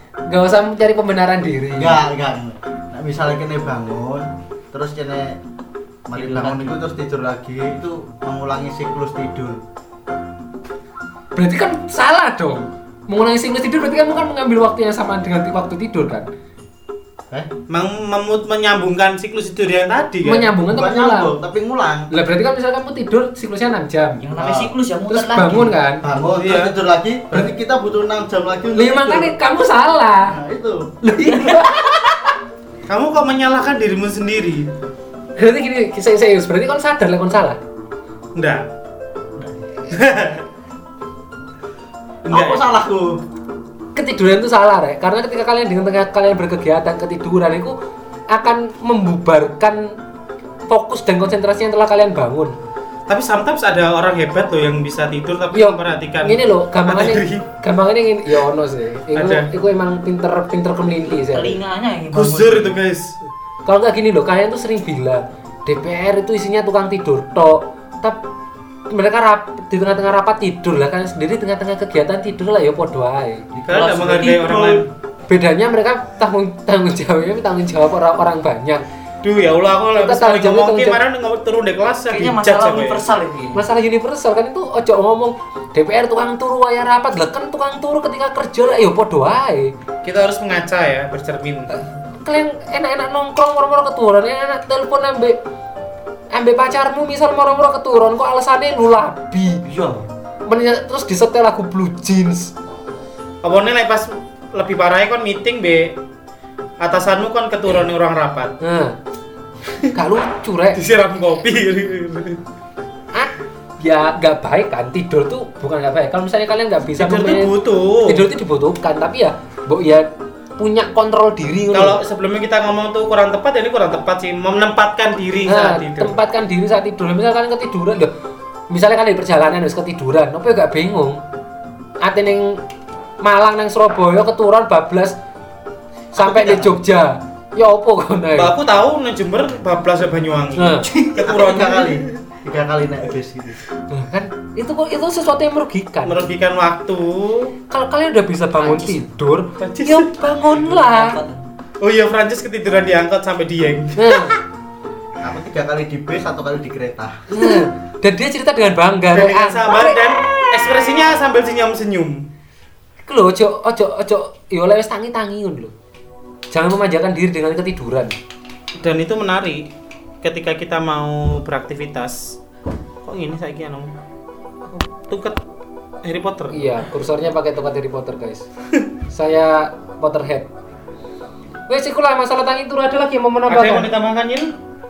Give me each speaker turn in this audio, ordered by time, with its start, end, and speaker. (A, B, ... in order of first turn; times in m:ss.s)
0:00.3-0:02.0 A
0:01.8-0:05.4 B
0:06.1-0:09.6 B
0:06.1-0:06.8 C
0:11.4-0:16.3 A
0:17.7-0:20.5 D
0:20.2-0:21.3 A
0:20.7-0:22.1 B
0:22.1-0:24.2 A
0:24.2-0:25.7 C
0:24.4-0:24.7 B
0:25.1-0:26.0 A
0:26.0-0:29.4 B
0:26.4-0:26.7 D
0:28.7-0:30.4 A
0:30.3-0:30.9 B
0:31.0-0:32.4 A
0:31.2-0:31.7 C
0:32.9-0:34.7 D
0:35.4-0:37.6 A
0:38.4-0:38.7 D
0:39.9-0:40.4 D
0:42.3-0:42.7 D
0:42.3-0:43.2 B
0:44.0-0:47.8 A
0:48.3-0:50.0 A
0:50.7-0:52.6 A
0:53.1-0:57.5 D
0:55.5-1:01.6 A
0:59.1-0:59.5 D
1:01.3-1:02.8 C
1:02.1-1:03.2 D
1:03.7-1:08.2 A
1:08.9-1:13.4 A
1:13.5-1:14.9 C
1:13.7-1:14.9 D
1:15.3-1:18.8 A
1:19.2-1:23.0 D
1:20.0-1:21.0 A
1:22.1-1:23.6 C
1:23.6-1:29.7 A
1:30.0-1:31.8 D
1:32.2-1:35.4 A
1:36.3-1:39.6 A
1:39.6-1:40.1 C
1:40.5-1:42.5 A
1:43.4-1:46.0 D
1:46.8-1:48.5 D
1:48.6-1:49.0 A
1:49.9-1:50.8 A
1:50.8-1:52.4 D
1:53.1-2:02.0 A
1:57.0-1:58.3 D
2:01.7-2:06.2 D
2:05.5-2:08.1 A
2:08.7-2:11.2 A
2:12.0-2:12.6 A
2:13.2-2:15.2 A
2:16.1-2:18.5 A
2:16.2-2:16.8 B
2:18.4-2:22.2 D
2:20.6-2:20.9 A
2:20.8-2:21.2 C
2:21.1-2:23.6 B
2:23.9-2:26.3 A
2:26.0-2:27.5 D
2:27.7-2:31.2 A
2:28.6-2:29.1 C
2:29.6-2:30.3 D
2:30.3-2:31.5 C
2:31.8-2:34.4 D
2:34.0-2:34.4 A
2:35.2-2:37.3 B
2:37.3-2:40.1 A
2:39.1-2:42.3 D
2:43.1-2:45.7 A
2:46.5-2:48.2 A
2:48.8-2:49.7 D
2:50.2-2:52.4 D
2:53.0-2:53.9 D
2:55.1-2:55.4 D
2:56.0-2:56.9 D
2:56.5-2:58.5 A
2:59.1-3:00.5 A
3:01.7-3:03.9 A
3:03.5-3:04.5 D